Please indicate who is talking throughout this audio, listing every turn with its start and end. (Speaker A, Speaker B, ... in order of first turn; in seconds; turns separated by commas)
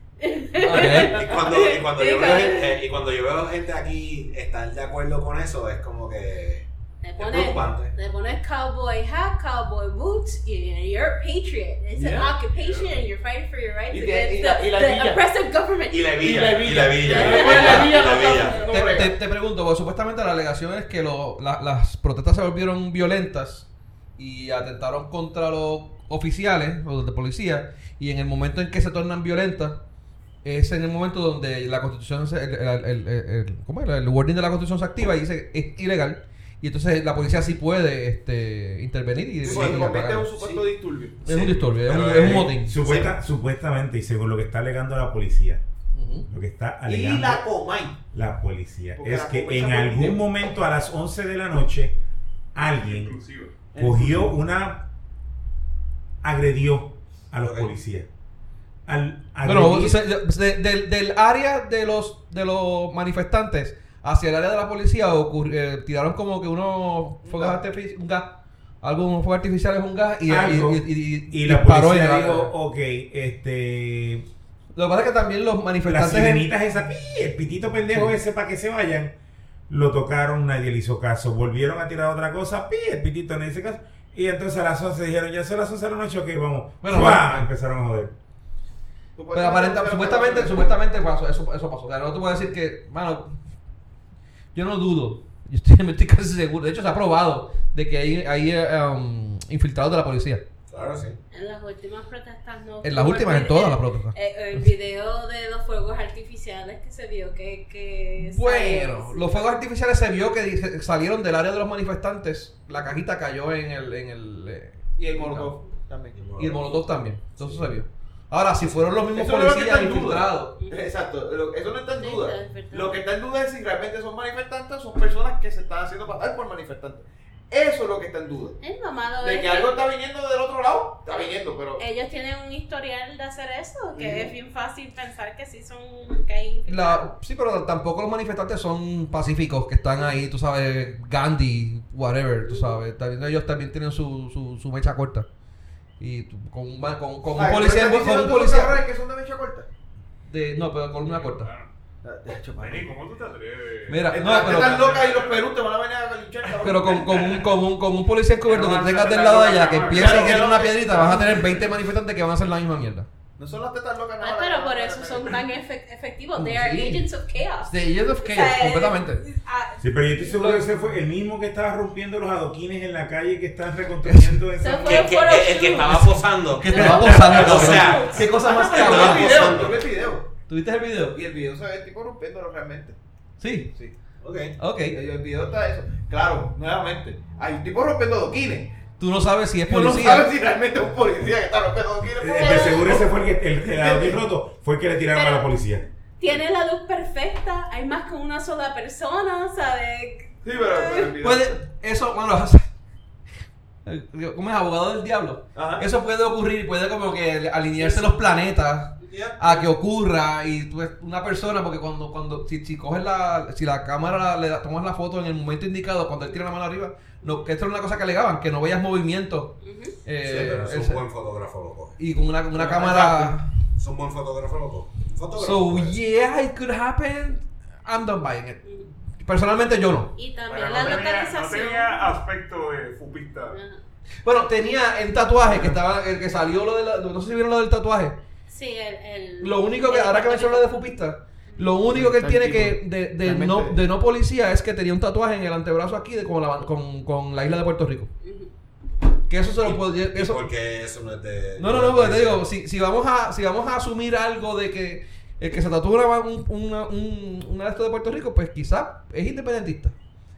Speaker A: 0.2-2.8, Speaker B: 0.6-1.2, Speaker C: 1.0-6.7, Speaker A: 7.0-18.8, Speaker C: 7.2-7.9, Speaker D: 12.0-12.3, Speaker E: 12.5-12.9, Speaker D: 13.9-15.2, Speaker C: 15.9-18.8, Speaker D: 16.2-19.1, Speaker B: 17.5-17.9, Speaker B: 18.7-29.8, Speaker B: 30.4-40.6, Speaker D: 39.4-41.3, Speaker C: 39.4-39.9, Speaker B: 41.2-42.8, Speaker C: 41.3-42.5, Speaker F: 41.9-45.6, Speaker D: 42.8-43.1, Speaker B: 45.9-46.3, Speaker F: 46.3-47.4, Speaker D: 46.8-48.0, Speaker F: 48.1-52.0, Speaker D: 49.0-50.2, Speaker F: 52.5-53.2, Speaker E: 52.6-53.6, Speaker D: 53.7-54.3, Speaker F: 53.7-54.9, Speaker F: 56.2-58.1, Speaker C: 57.4-57.7, Speaker F: 58.9-60.0, Speaker B: 59.4-72.5, Speaker D: 67.2-67.6, Speaker F: 70.2-74.3, Speaker B: 74.7-76.5, Speaker F: 75.8-79.1, Speaker F: 79.7-88.1, Speaker B: 86.8-87.5, Speaker D: 89.2-90.8, Speaker B: 89.3-93.4, Speaker B: 94.5-100.4, Speaker C: 100.7-101.2, Speaker A: 101.3-109.5, Speaker B: 102.8-104.6, Speaker B: 108.2-115.5, Speaker D: 115.0-116.2, Speaker C: 116.1-116.7, Speaker B: 116.4-120.5, Speaker C: 117.4-117.7, Speaker D: 119.0-128.6, Speaker A: 122.0-123.0, Speaker A: 128.6-129.8, Speaker D: 129.2-131.8, Speaker A: 131.8-137.1, Speaker D: 133.9-134.3, Speaker B: 136.7-145.3, Speaker A: 142.5-142.8, Speaker B: 146.0-148.8, Speaker D: 147.3-149.7, Speaker B: 150.3-151.5, Speaker E: 150.9-151.7, Speaker D: 152.0-152.9, Speaker E: 152.5-155.6, Speaker B: 153.9-154.9, Speaker D: 154.1-157.1, Speaker B: 156.6-163.1, Speaker E: 156.6-157.4, Speaker E: 158.4-160.6, Speaker D: 159.9-161.5, Speaker D: 163.4-165.4, Speaker A: 164.2-170.4, Speaker B: 166.4-167.0, Speaker B: 167.7-169.2, Speaker F: 169.8-175.2, Speaker B: 174.0-174.4, Speaker A: 174.6-178.4, Speaker C: 174.8-179.8, Speaker B: 176.6-179.6, Speaker D: 177.4-180.3, Speaker B: 180.5-181.2, Speaker D: 181.1-183.0, Speaker B: 183.4-183.7, Speaker D: 183.7-183.9, Speaker C: 184.2-184.6, Speaker B: 184.6-185.0, Speaker D: 184.9-188.8, Speaker B: 189.0-190.3, Speaker D: 189.7-194.2, Speaker F: 192.1-195.9, Speaker A: 195.1-195.5, Speaker A: 196.2-201.0, Speaker D: 200.4-201.6, Speaker B: 201.1-202.7, Speaker B: 203.8-221.0, Speaker D: 205.5-205.8, Speaker C: 209.0-209.7, Speaker A: 219.6-219.9, Speaker C: 220.2-221.9, Speaker B: 222.0-223.5, Speaker D: 222.6-223.2, Speaker C: 222.8-226.0, Speaker B: 225.4-228.6, Speaker A: 228.6-228.9, Speaker B: 229.2-230.1, Speaker A: 230.1-232.1, Speaker E: 230.5-233.6, Speaker A: 233.5-233.8, Speaker B: 234.2-238.2, Speaker D: 235.5-235.7, Speaker A: 238.5-240.8, Speaker B: 239.4-248.1, Speaker D: 241.9-243.8, Speaker A: 248.2-248.5, Speaker B: 249.3-250.4, Speaker C: 249.6-252.4, Speaker B: 251.6-259.9